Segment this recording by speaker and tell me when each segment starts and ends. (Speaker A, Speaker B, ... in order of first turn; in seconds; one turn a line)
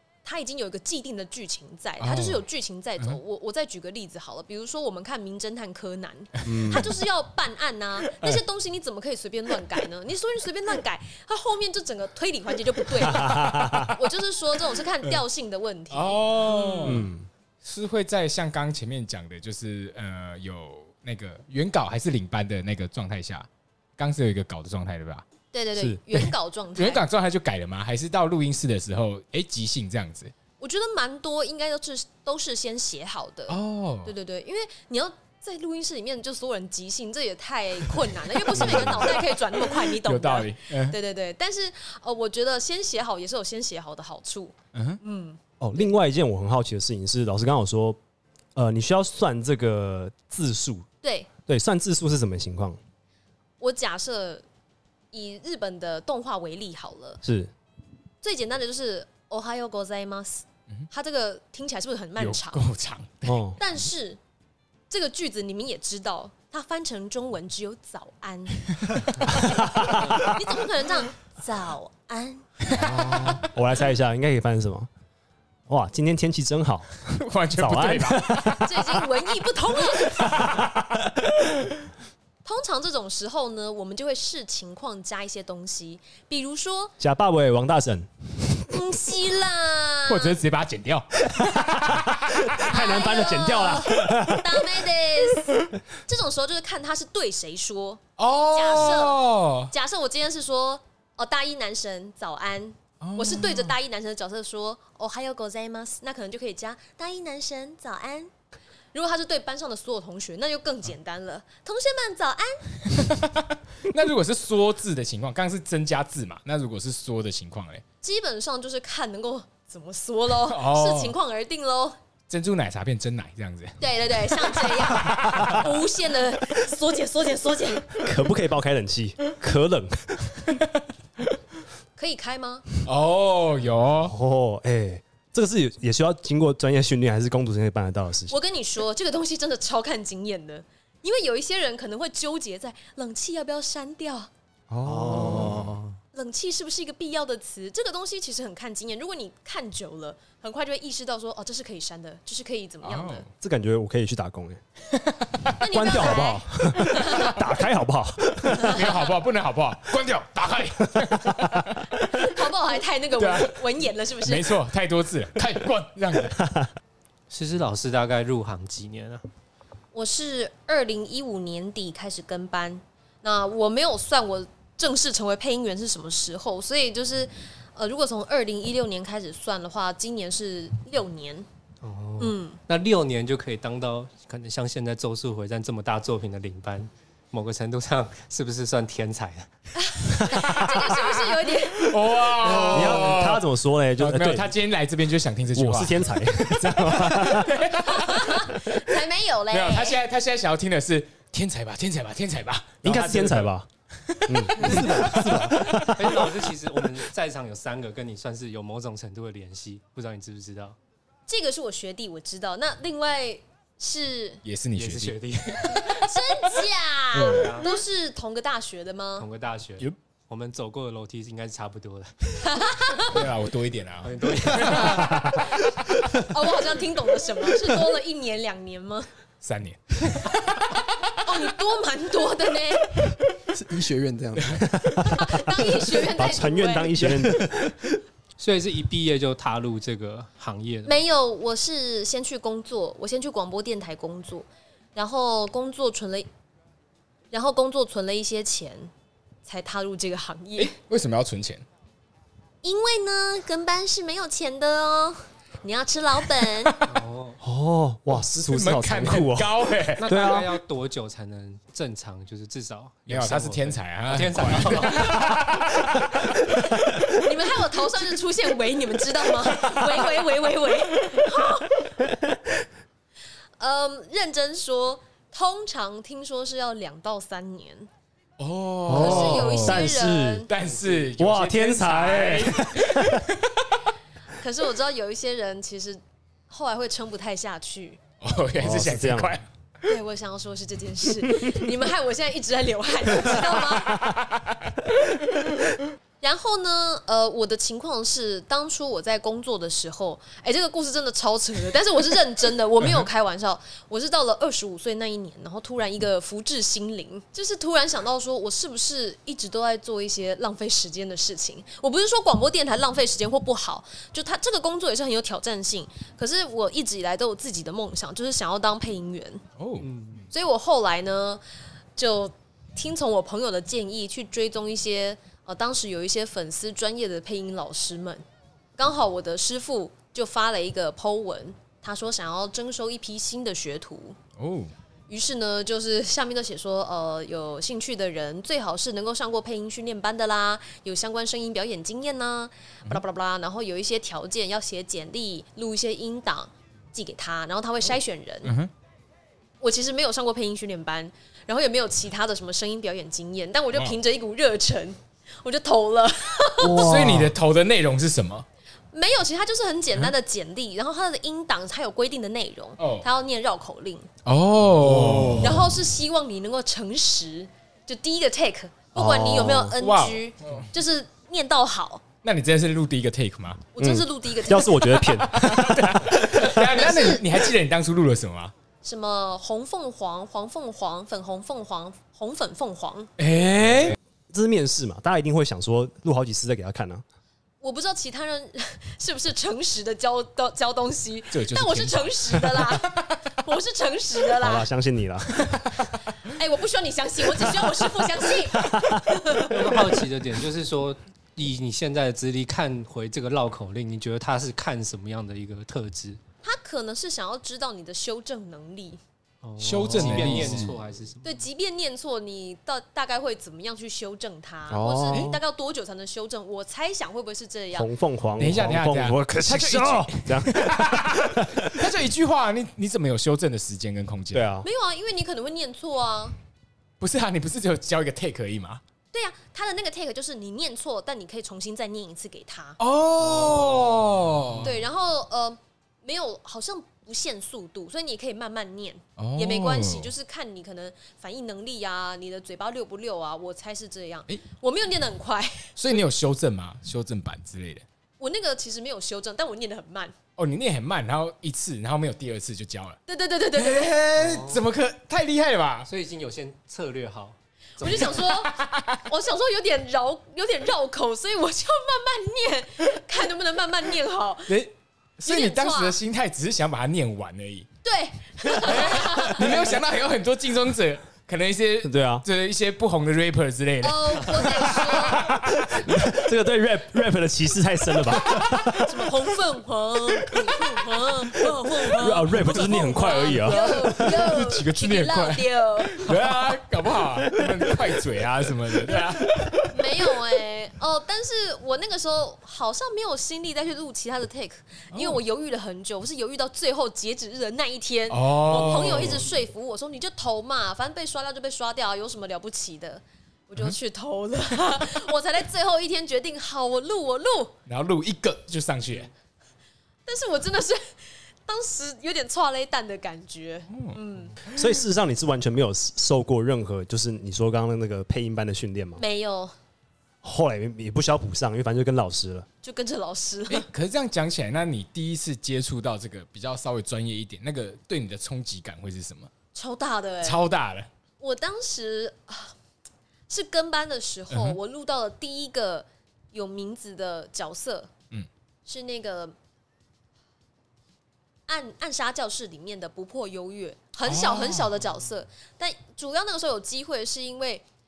Speaker A: 0.2-17.1
Speaker B: 2.0-2.4
Speaker B: 6.4-6.8
Speaker C: 6.4-6.9
Speaker C: 13.1-14.0
Speaker B: 15.9-17.1
Speaker C: 16.8-17.3
Speaker B: 17.6-25.2
Speaker A: 25.5-27.0
Speaker C: 25.7-26.0
Speaker B: 26.1-30.3
Speaker A: 30.6-45.4
Speaker B: 33.5-34.1
Speaker C: 38.5-39.2
Speaker B: 38.6-39.0
Speaker B: 39.5-41.0
Speaker B: 44.7-45.0
Speaker C: 45.6-48.0
Speaker C: 48.5-50.9
Speaker A: 51.0-51.3
Speaker C: 51.5-52.8
Speaker A: 53.6-54.4
Speaker A: 55.1-57.2
Speaker C: 57.2-57.5
Speaker A: 58.2-62.6
Speaker B: 62.2-63.5
Speaker C: 63.2-63.6
Speaker A: 63.6-64.2
Speaker A: 64.9-73.2
Speaker C: 69.3-70.2
Speaker C: 72.7-74.9
Speaker B: 72.7-73.3
Speaker C: 75.7-78.8
Speaker B: 77.1-78.8
Speaker A: 78.5-80.5
Speaker B: 80.2-80.8
Speaker C: 80.3-81.3
Speaker A: 82.4-86.9
Speaker C: 87.0-88.8
Speaker A: 88.7-90.4
Speaker B: 90.0-92.6
Speaker C: 91.3-94.9
Speaker A: 92.6-108.3
Speaker B: 98.2-99.7
Speaker B: 103.0-103.7
Speaker A: 108.9-112.9
Speaker B: 112.8-117.8
Speaker A: 118.0-122.0
Speaker B: 120.5-121.2
Speaker B: 122.3-125.7
Speaker A: 123.8-128.0
Speaker C: 128.0-130.5
Speaker A: 132.0-132.6
Speaker B: 132.8-134.1
Speaker C: 134.1-138.4
Speaker A: 138.3-144.3
Speaker C: 144.7-145.7
Speaker D: 144.9-145.9
Speaker A: 146.1-153.2
Speaker B: 152.8-153.3
Speaker C: 153.4-154.6
Speaker B: 155.0-155.5
Speaker A: 155.5-157.4
Speaker C: 155.6-159.0
Speaker B: 158.5-161.9
Speaker A: 158.6-159.0
Speaker A: 162.0-164.6
Speaker B: 163.2-166.4
Speaker C: 166.4-166.7
Speaker E: 167.3-169.2
Speaker A: 169.9-181.4
Speaker E: 181.8-189.5
Speaker A: 182.2-182.6
Speaker A: 189.8-192.2
Speaker B: 190.3-193.4
Speaker C: 192.4-194.5
Speaker B: 194.0-196.3
Speaker C: 195.5-197.7
Speaker B: 196.9-198.5
Speaker A: 197.8-200.0
Speaker B: 199.5-203.5
Speaker C: 202.8-203.7
Speaker B: 204.0-205.9
Speaker C: 204.3-206.3
Speaker D: 204.7-205.7
Speaker E: 205.7-210.8
Speaker A: 211.3-214.4
Speaker B: 214.4-215.9
Speaker E: 214.7-216.1
Speaker A: 215.6-219.3
Speaker B: 217.1-217.7
Speaker E: 217.2-217.8
Speaker E: 219.2-222.6
Speaker A: 222.4-223.2
Speaker B: 223.1-225.2
Speaker E: 224.0-225.3
Speaker C: 224.9-225.4
Speaker A: 226.1-229.1
Speaker B: 229.4-230.9
Speaker A: 231.2-233.1
Speaker D: 233.5-235.0
Speaker B: 234.4-234.8
Speaker C: 234.7-237.8
Speaker A: 235.0-237.1
Speaker E: 238.4-241.0
Speaker A: 240.8-246.3
Speaker A: 247.3-248.9
Speaker A: 249.4-250.7
Speaker B: 250.6-251.6
Speaker A: 252.6-256.8
Speaker E: 256.9-257.4
Speaker C: 257.4-260.5
Speaker B: 258.2-260.0
Speaker E: 260.0-265.4
Speaker B: 263.1-266.3
Speaker A: 267.0-271.9
Speaker C: 272.0-272.5
Speaker A: 273.6-277.9
Speaker B: 278.4-283.7
Speaker C: 278.9-280.5
Speaker A: 278.9-280.5
Speaker C: 281.1-283.2
Speaker A: 284.4-288.0
Speaker B: 288.2-289.5
Speaker C: 288.6-289.4
Speaker A: 289.8-294.1
Speaker B: 293.4-295.5
Speaker A: 296.2-319.4
Speaker B: 319.6-319.9
Speaker E: 319.8-320.3
Speaker A: 320.3-321.4
Speaker A: 322.0-328.2
Speaker A: 328.8-334.2
Speaker B: 334.4-334.7
Speaker A: 335.1-348.5
Speaker B: 348.4-348.7
Speaker A: 349.6-356.9
Speaker C: 356.6-357.3
Speaker B: 356.6-358.4
Speaker A: 358.9-364.1
Speaker B: 362.8-363.1
Speaker B: 364.2-365.6
Speaker C: 364.8-365.6
Speaker A: 365.4-372.0
Speaker C: 368.9-369.7
Speaker B: 369.8-370.7
Speaker B: 372.2-373.7
Speaker A: 373.7-375.2
Speaker C: 373.8-376.4
Speaker B: 375.3-378.5
Speaker A: 376.3-377.2
Speaker A: 378.8-383.1
Speaker B: 383.2-384.0
Speaker C: 384.3-387.0
Speaker A: 387.6-394.7
Speaker B: 391.3-393.1
Speaker C: 394.4-395.4
Speaker B: 395.4-395.7
Speaker A: 396.2-399.6
Speaker C: 398.5-399.1
Speaker E: 399.4-406.2
Speaker A: 406.4-409.0
Speaker E: 409.4-411.4
Speaker B: 409.6-410.8
Speaker A: 411.2-417.9
Speaker C: 414.7-415.4
Speaker B: 415.1-415.4
Speaker C: 417.7-421.9
Speaker B: 418.4-424.5
Speaker C: 424.3-424.7
Speaker A: 424.6-426.3
Speaker B: 427.0-428.8
Speaker A: 429.1-432.8
Speaker B: 432.8-434.8
Speaker A: 434.6-445.7
Speaker B: 439.2-440.1
Speaker B: 445.8-447.8
Speaker A: 448.2-450.1
Speaker B: 450.4-453.0
Speaker A: 453.1-454.1
Speaker B: 453.6-455.9
Speaker E: 454.1-454.6
Speaker E: 455.8-458.2
Speaker A: 457.8-464.6
Speaker B: 458.1-459.0
Speaker B: 464.5-467.7
Speaker A: 465.2-466.0
Speaker A: 467.8-469.8
Speaker B: 468.5-475.9
Speaker C: 471.8-472.2
Speaker A: 473.8-475.3
Speaker C: 475.4-479.0
Speaker B: 478.3-478.6
Speaker A: 478.7-486.1
Speaker C: 482.0-484.2
Speaker B: 483.2-490.1
Speaker A: 489.7-507.5
Speaker B: 494.9-495.2
Speaker B: 498.1-499.3
Speaker B: 507.7-509.1
Speaker A: 510.1-514.4
Speaker B: 513.7-514.0
Speaker C: 514.5-519.0
Speaker A: 519.0-519.5
Speaker C: 520.2-522.5
Speaker A: 522.6-523.7
Speaker B: 523.5-529.3
Speaker A: 529.5-530.4
Speaker B: 530.2-530.9
Speaker A: 531.2-532.5
Speaker A: 533.3-537.9
Speaker B: 534.3-534.6
Speaker A: 538.6-539.3
Speaker A: 541.5-547.6
Speaker B: 544.0-544.8